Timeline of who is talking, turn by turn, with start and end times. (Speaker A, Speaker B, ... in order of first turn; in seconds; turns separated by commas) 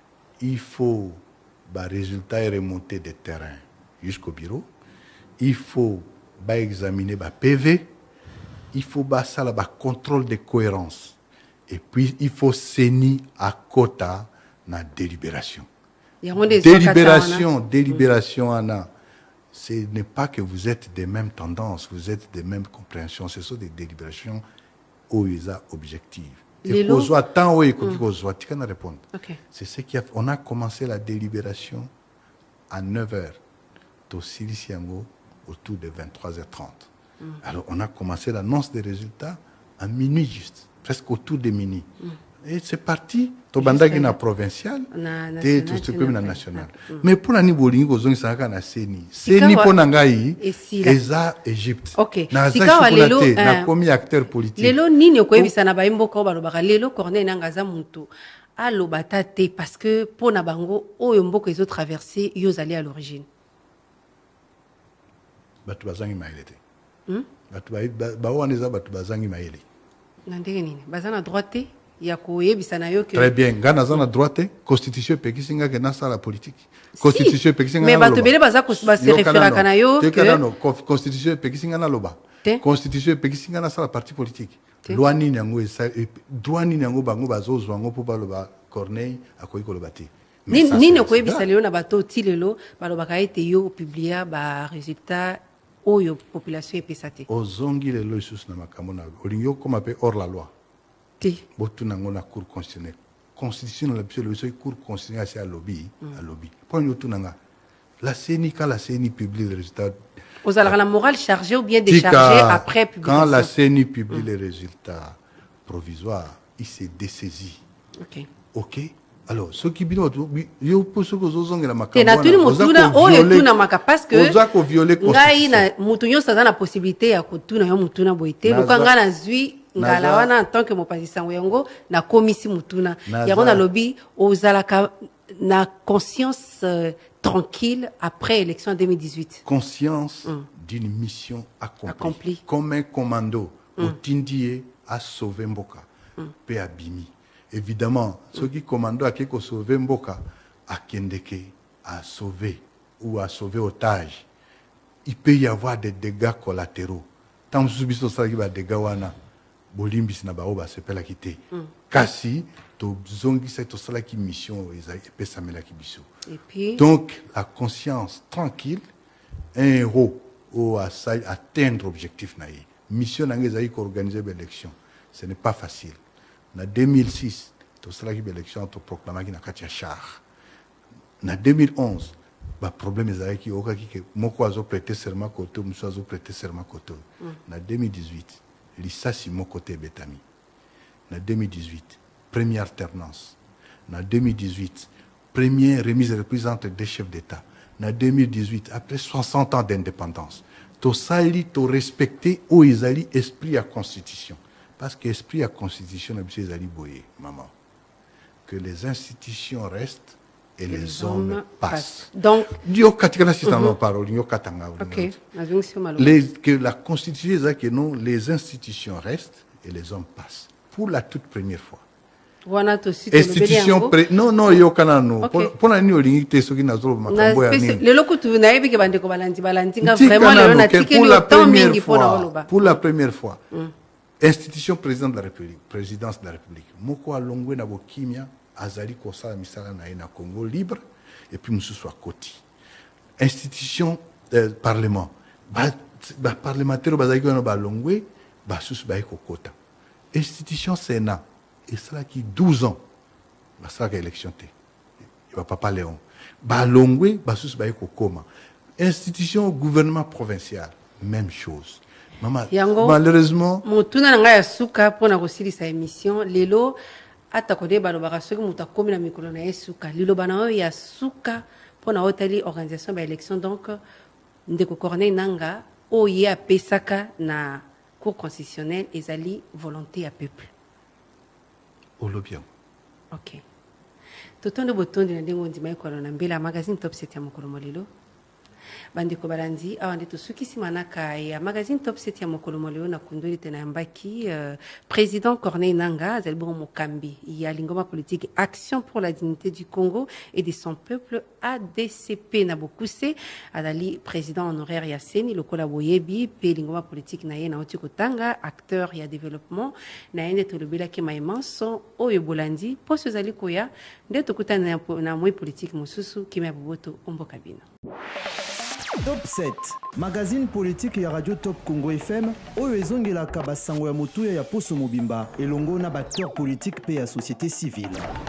Speaker A: 0.4-4.7, Speaker A: 5.4-7.9, Speaker A: 8.7-11.2, Speaker A: 11.7-15.7, Speaker B: 16.2-17.5, Speaker A: 16.5-18.9, Speaker A: 19.5-24.4, Speaker A: 25.1-31.9, Speaker B: 26.6-27.1, Speaker B: 29.1-29.4, Speaker A: 32.7-33.4, Speaker A: 34.1-36.9, Speaker A: 37.4-41.9, Speaker A: 42.4-54.8, Speaker B: 43.6-44.2, Speaker B: 44.9-47.0, Speaker B: 49.2-49.7, Speaker B: 50.4-51.0, Speaker B: 52.0-53.7, Speaker B: 54.6-63.2, Speaker A: 65.6-66.6, Speaker A: 67.5-69.6, Speaker B: 70.3-73.3, Speaker A: 73.1-91.5, Speaker B: 77.0-80.4, Speaker B: 90.5-97.3, Speaker A: 97.3-100.5, Speaker A: 101.5-107.4, Speaker A: 108.0-110.0, Speaker B: 110.4-113.5, Speaker A: 111.8-117.6, Speaker B: 118.0-118.3, Speaker A: 118.5-123.5, Speaker B: 121.9-124.4, Speaker A: 124.1-125.7, Speaker B: 125.0-139.4, Speaker A: 128.4-128.9, Speaker A: 129.8-130.3, Speaker A: 133.1-133.6, Speaker A: 139.4-145.9, Speaker B: 141.9-142.4, Speaker A: 146.4-154.2, Speaker A: 155.0-159.1, Speaker A: 159.7-166.1, Speaker B: 166.3-166.8, Speaker A: 166.8-168.8, Speaker A: 169.5-176.0, Speaker A: 176.5-180.2, Speaker A: 181.2-190.2, Speaker A: 191.1-207.5, Speaker A: 208.4-215.2, Speaker B: 210.7-212.6, Speaker B: 214.8-216.2, Speaker A: 216.0-221.8, Speaker B: 222.4-224.0, Speaker A: 223.1-227.8, Speaker B: 225.2-225.5, Speaker B: 227.1-232.5, Speaker A: 229.8-233.4, Speaker A: 234.2-242.4, Speaker A: 243.2-249.5, Speaker A: 250.1-252.8, Speaker A: 253.6-254.5, Speaker A: 255.3-263.6, Speaker B: 262.5-263.0, Speaker B: 263.6-266.8, Speaker B: 267.3-273.8, Speaker B: 274.5-280.5, Speaker A: 282.0-282.5, Speaker B: 283.1-283.4, Speaker B: 284.4-287.9, Speaker B: 288.9-317.6, Speaker C: 319.0-328.1